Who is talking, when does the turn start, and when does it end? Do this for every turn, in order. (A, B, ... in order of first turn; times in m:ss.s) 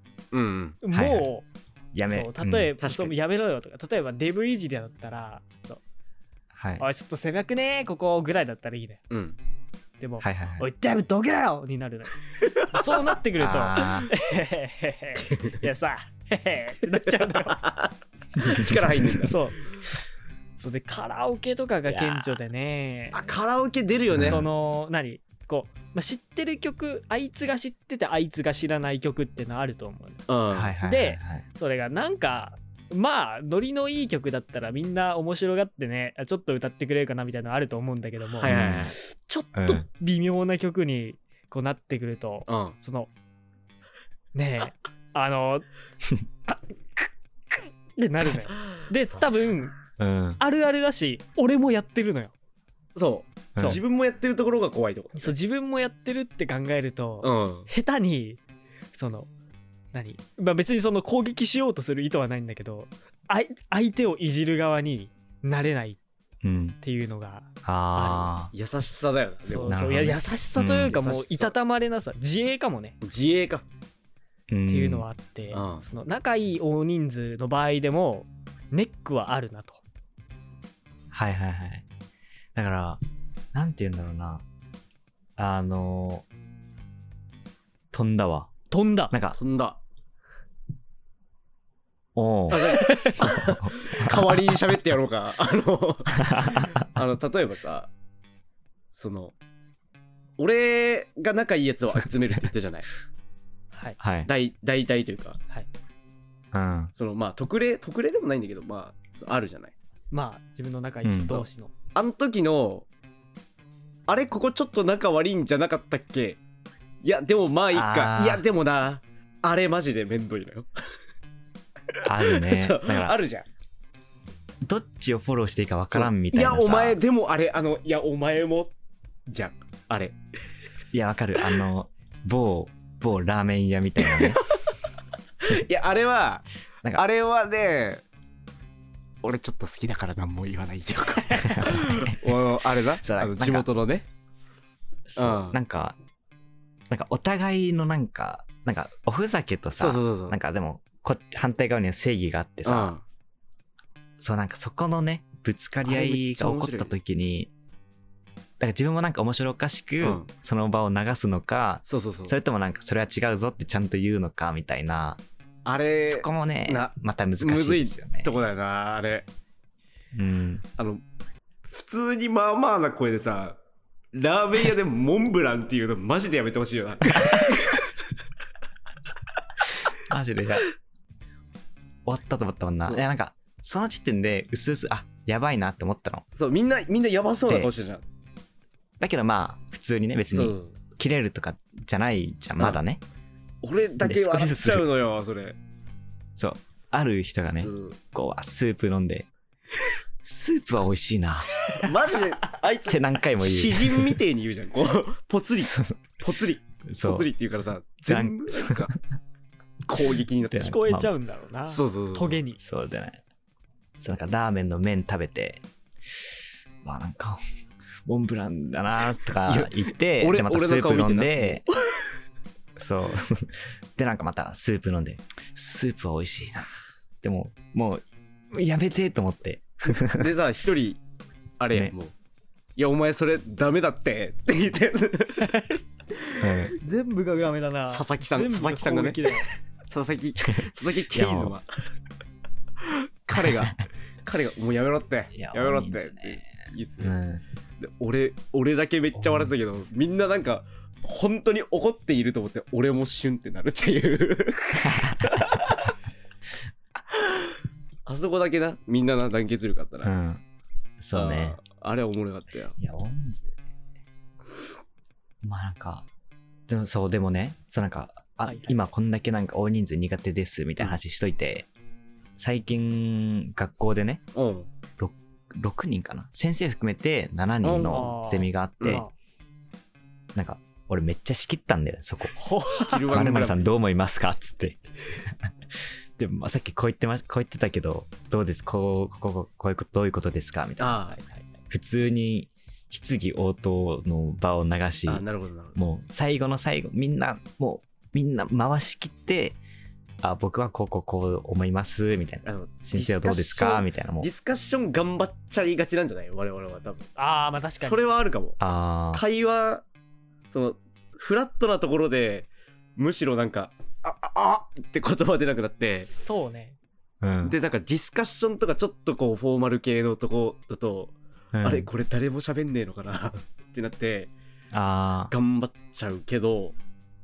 0:00.3-0:00.8 A
0:00.8-0:01.4 B
0:00.9-0:01.3 C
0:01.9-0:02.8 C
0:02.1-0:05.8 B
0:02.8-0:03.1 A
0:06.5-0:06.8 C
0:06.8-0:09.0 B
0:09.1-0:09.4 A
0:10.0-0:17.6 B
0:10.2-0:10.6 C
0:13.4-0:14.1 C
0:17.1-0:19.4 A
0:18.6-0:19.9 B
0:20.6-0:23.3 B
0:21.9-0:22.3 A
0:23.1-0:24.4 A
0:24.1-0:24.5 C
0:24.2-0:30.2 B
0:30.3-0:30.8 A
0:30.5-0:31.4 C
0:30.8-0:43.1 B
0:38.2-0:39.0 A
0:38.5-0:38.9 C
0:39.5-0:39.8 C
0:42.4-0:42.8 A
0:44.3-0:45.6 B
0:46.5-0:47.0 B
0:48.0-0:49.8 B
0:50.0-0:50.4 C
0:50.4-0:52.3 B
0:52.9-0:55.3 A
0:53.5-0:53.8 C
0:55.2-0:58.4 B
0:57.2-0:57.7 A
0:58.9-0:59.3 B
0:59.9-1:06.0 B
1:06.4-1:06.8 C
1:06.8-1:08.3 B
1:07.6-1:08.5 C
1:08.0-1:09.8 A
1:09.4-1:13.0 B
1:09.6-1:11.0 C
1:10.9-1:11.5 A
1:13.0-1:13.6 A
1:14.5-1:15.1 C
1:14.7-1:19.8 B
1:15.5-1:15.8 A
1:21.1-1:21.8 C
1:22.5-1:23.0 C
1:23.5-1:24.4 C
1:25.4-1:26.3 C
1:27.9-1:28.5 C
1:28.7-1:29.1 B
1:29.1-1:29.4 C
1:29.3-1:29.8 A
1:32.1-1:32.9 C
1:32.5-1:37.9 A
1:33.5-1:34.4 C
1:36.2-1:36.7 C
1:38.9-1:39.3 A
1:40.4-1:42.9 A
1:43.7-1:44.0 B
1:44.0-1:44.3 C
1:44.2-1:45.4 A
1:46.5-1:46.9 C
1:47.0-1:49.7 A
1:50.1-1:51.7 B
1:51.0-1:51.3 C
1:51.2-1:52.9 A
1:54.1-1:56.4 A
1:57.0-2:00.7 A
1:57.7-1:58.4 C
2:02.0-2:03.4 A
2:02.0-2:03.2 C
2:04.6-2:07.0 C
2:05.9-2:08.7 A
2:09.3-2:10.2 A
2:10.9-2:14.4 C
2:14.0-2:14.6 A
2:15.4-2:18.0 A
2:19.2-2:24.0 A
2:21.3-2:23.7 C
2:25.1-2:26.0 C
2:25.2-2:25.6 A
2:26.9-2:32.9 C
2:29.8-2:30.4 A
2:32.6-2:33.0 A
2:34.2-2:37.5 C
2:35.8-2:37.0 A
2:38.6-2:45.2 C
2:40.0-2:40.3 A
2:41.8-2:42.4 A
2:45.6-2:49.3 A
2:46.0-2:48.4 C
2:50.1-2:50.6 C
2:50.8-2:51.0 A
2:51.7-2:53.6 A
2:54.1-2:57.9 A
3:00.1-3:00.7 C
3:02.0-3:06.2 C
3:06.3-3:08.0 A
3:09.0-3:13.0 C
3:10.3-3:10.7 A
3:13.6-3:15.6 A
3:14.0-3:14.9 C
3:16.4-3:19.3 C
3:17.6-3:18.0 A
3:20.2-3:21.5 C
3:21.8-3:28.9 A
3:22.8-3:24.2 C
3:25.6-3:26.2 C
3:26.9-3:27.3 C
3:28.1-3:29.0 C
3:29.9-3:30.8 A
3:30.4-3:31.1 C
3:30.6-3:32.6 B
3:31.7-3:32.4 A
3:32.6-3:33.2 C
3:34.0-3:37.4 C
3:38.0-3:41.6 C
3:39.4-3:41.7 A
3:42.8-3:46.7 C
3:47.2-3:50.2 C
3:49.9-3:51.0 A
3:51.6-3:52.1 A
3:52.8-3:55.7 A
3:56.4-3:56.7 C
3:56.4-3:56.8 A
3:56.8-3:59.5 B
3:57.9-3:59.2 A
3:59.9-4:01.6 A
4:00.6-4:01.5 C
4:02.8-4:07.2 A
4:05.3-4:07.4 C
4:07.8-4:15.9 A
4:09.2-4:09.5 C
4:18.0-4:20.1 A
4:20.0-4:20.4 C
4:21.0-4:21.6 C
4:21.1-4:22.7 A
4:22.8-4:23.5 C
4:25.4-4:26.1 C
4:26.7-4:31.7 C
4:28.4-4:28.9 B
4:32.4-4:34.2 C
4:34.3-4:34.7 A
4:35.0-4:39.0 C
4:37.6-4:38.1 A
4:37.8-4:39.1 B
4:38.8-4:39.0 A
4:40.3-4:42.4 C
4:42.4-4:43.2 B
4:42.7-4:43.7 A
4:43.1-4:51.0 C
4:50.8-4:51.2 A
4:51.1-4:51.4 B
4:51.7-4:55.2 C
4:55.1-4:55.8 A
4:55.8-4:59.6 C
5:00.2-5:04.3 C
5:02.4-5:07.1 A
5:07.2-5:08.1 B
5:07.8-5:08.6 A
5:08.6-5:09.2 C
5:09.1-5:09.8 A
5:10.5-5:16.1 A
5:16.1-5:16.8 B
5:17.2-5:17.5 C
5:17.4-5:24.3 A
5:21.5-5:21.9 C
5:24.7-5:25.3 C
5:25.3-5:26.7 A